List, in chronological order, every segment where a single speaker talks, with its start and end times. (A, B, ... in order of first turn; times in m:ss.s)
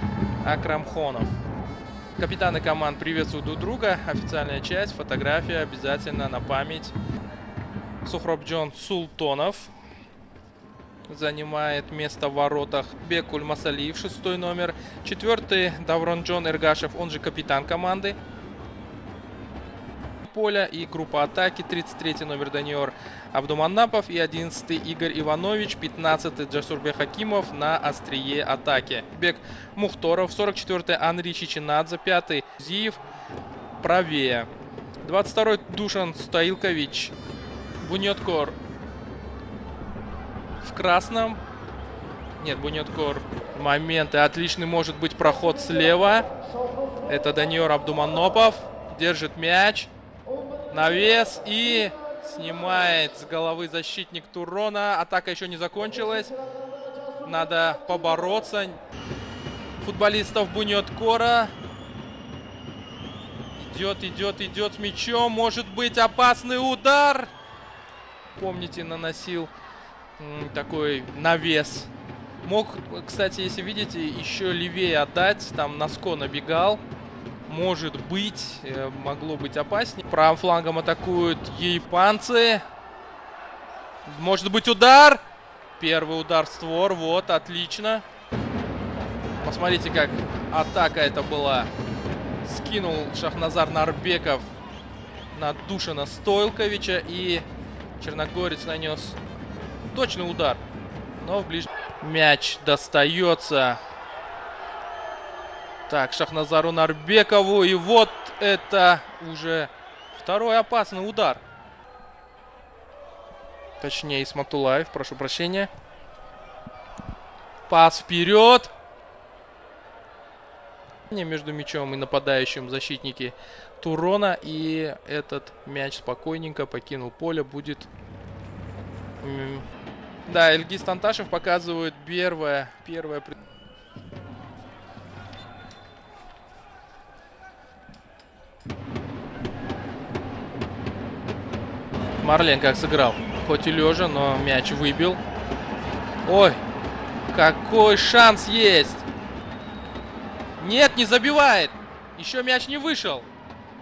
0:00.4-0:01.4 A
0:02.2-0:06.9 A
0:08.0-0:09.7 A
0:11.1-0:18.2 A
0:20.2-0:33.0 A
0:33.8-0:34.5 A
0:35.0-0:37.1 A
0:37.8-0:38.6 A
0:40.6-0:41.4 A
0:42.4-0:46.3 A
0:47.0-0:49.9 A
0:50.7-0:56.3 A
0:57.2-0:58.8 A
0:59.8-1:01.5 A
1:03.5-1:07.3 A
1:08.3-1:09.5 A
1:10.2-1:11.9 A
1:12.4-1:16.8 A
1:17.4-1:22.6 A
1:24.0-1:25.2 A
1:25.8-1:28.0 A
1:29.4-1:31.7 A
1:32.4-1:34.5 A
1:35.3-1:37.4 A
1:38.0-1:39.2 A
1:39.9-1:40.6 A
1:41.2-1:43.8 A
1:45.9-1:51.4 A
1:53.8-1:55.7 A
1:57.7-1:58.7 A
2:01.1-2:07.9 A
2:09.2-2:09.6 A
2:10.3-2:13.3 A
2:22.2-2:25.2 A
2:26.2-2:26.6 A
2:27.3-2:29.0 A
2:30.6-2:33.3 A